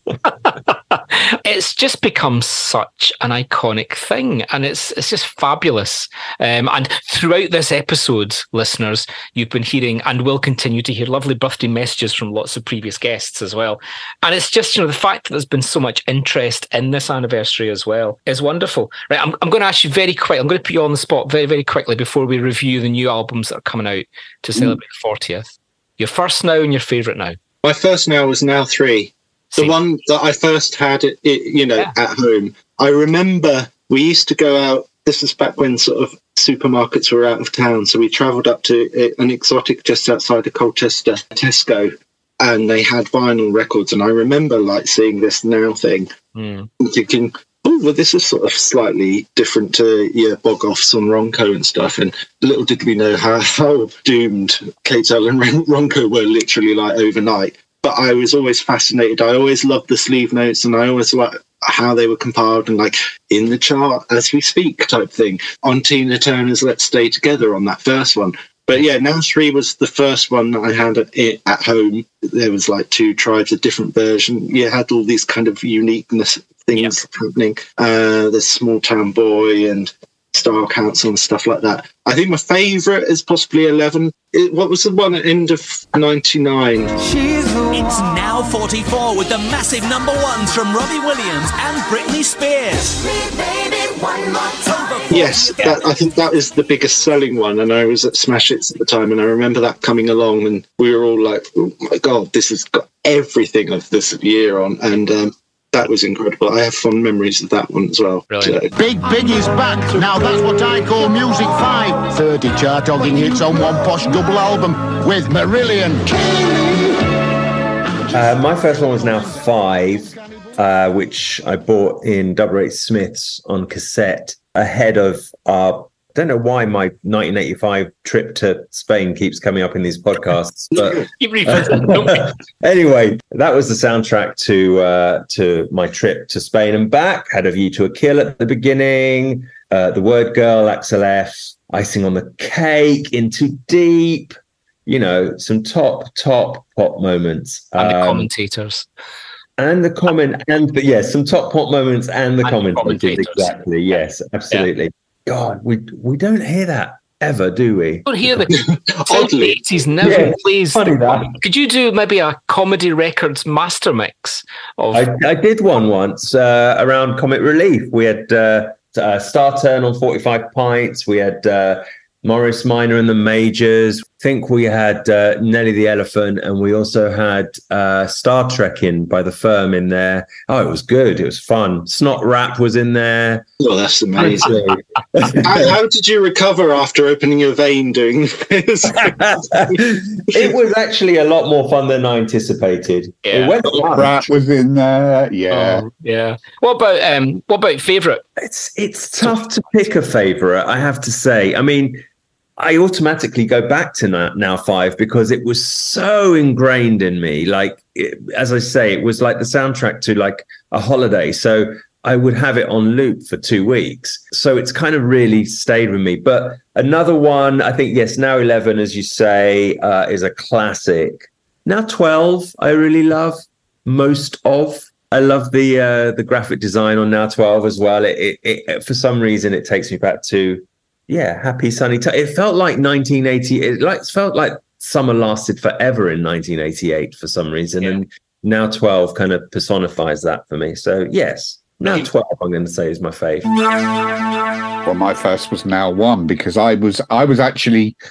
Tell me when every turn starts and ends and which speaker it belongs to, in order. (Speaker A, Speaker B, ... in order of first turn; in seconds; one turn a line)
Speaker A: 0.4-27.4
Speaker B: 27.6-46.1
Speaker A: 46.3-46.7
Speaker B: 46.8-86.9
Speaker C: 87.0-95.6
Speaker B: 95.1-108.7
Speaker A: 108.3-108.7
Speaker D: 108.8-116.9
Speaker E: 118.1-144.3
Speaker B: 130.7-131.1
Speaker A: 131.2-132.3
Speaker E: 144.8-148.3
Speaker A: 147.8-148.9
Speaker E: 149.6-158.5
Speaker A: 152.4-154.0
Speaker A: 158.1-158.5
Speaker B: 158.5-159.6
Speaker A: 159.1-165.1
Speaker E: 160.0-161.4
Speaker E: 164.9-183.4
Speaker B: 183.6-184.5
Speaker E: 184.2-185.7
Speaker B: 185.4-190.5
Speaker E: 189.0-194.2
Speaker A: 193.2-193.6
Speaker F: 193.7-195.8
Speaker A: 195.5-198.2
Speaker E: 198.4-202.0
Speaker E: 202.6-243.5
Speaker F: 244.8-247.9